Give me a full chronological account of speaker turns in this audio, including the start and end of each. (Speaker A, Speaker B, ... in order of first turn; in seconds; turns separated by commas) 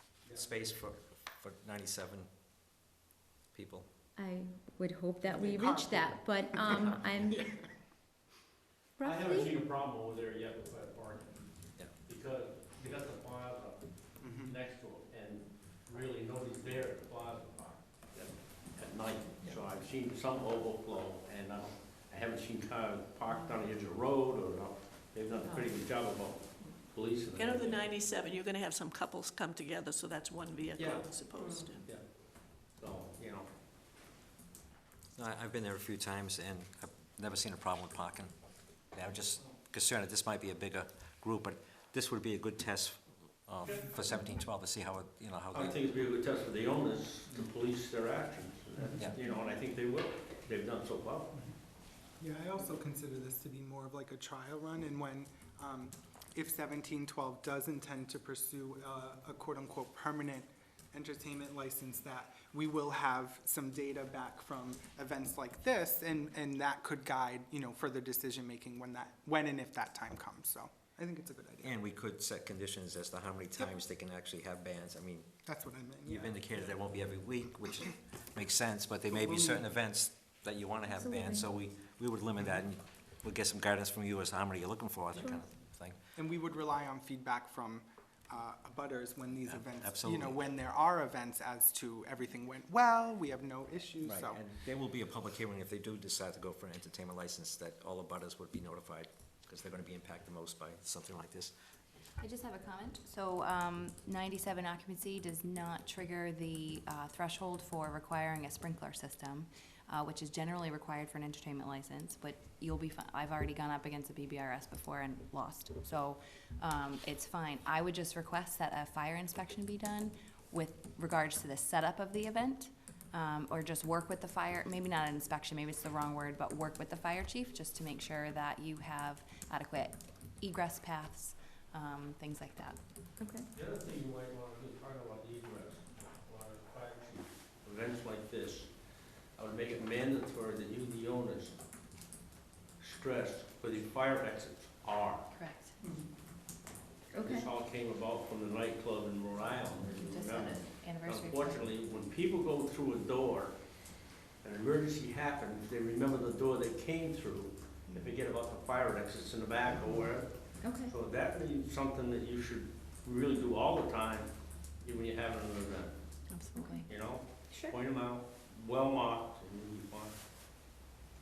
Speaker A: 0.2-2.3, Speaker A: 3.5-3.9, Speaker B: 4.2-7.5, Speaker C: 5.2-7.7, Speaker B: 9.0-9.5, Speaker D: 9.0-11.5, Speaker D: 12.1-13.8, Speaker C: 14.2-14.6, Speaker D: 14.3-28.0, Speaker E: 27.3-31.9, Speaker C: 30.8-31.0, Speaker D: 32.8-33.5, Speaker A: 35.1-38.3, Speaker A: 38.9-45.8, Speaker D: 43.6-43.9, Speaker D: 45.5-51.3, Speaker C: 52.2-71.8, Speaker A: 71.6-75.3, Speaker C: 75.5-76.7, Speaker A: 76.0-86.0, Speaker C: 79.2-79.6, Speaker B: 80.9-81.5, Speaker C: 86.2-94.4, Speaker A: 89.5-90.4, Speaker A: 94.0-101.5, Speaker F: 102.2-132.8, Speaker B: 133.2-133.4, Speaker D: 133.5-138.7, Speaker D: 139.3-141.5, Speaker D: 142.8-145.3, Speaker F: 145.3-145.8, Speaker C: 145.8-146.1, Speaker B: 147.1-147.5, Speaker D: 147.2-153.6, Speaker F: 149.8-151.7, Speaker D: 154.4-165.9, Speaker B: 160.6-160.9, Speaker F: 166.3-166.9, Speaker D: 166.8-170.1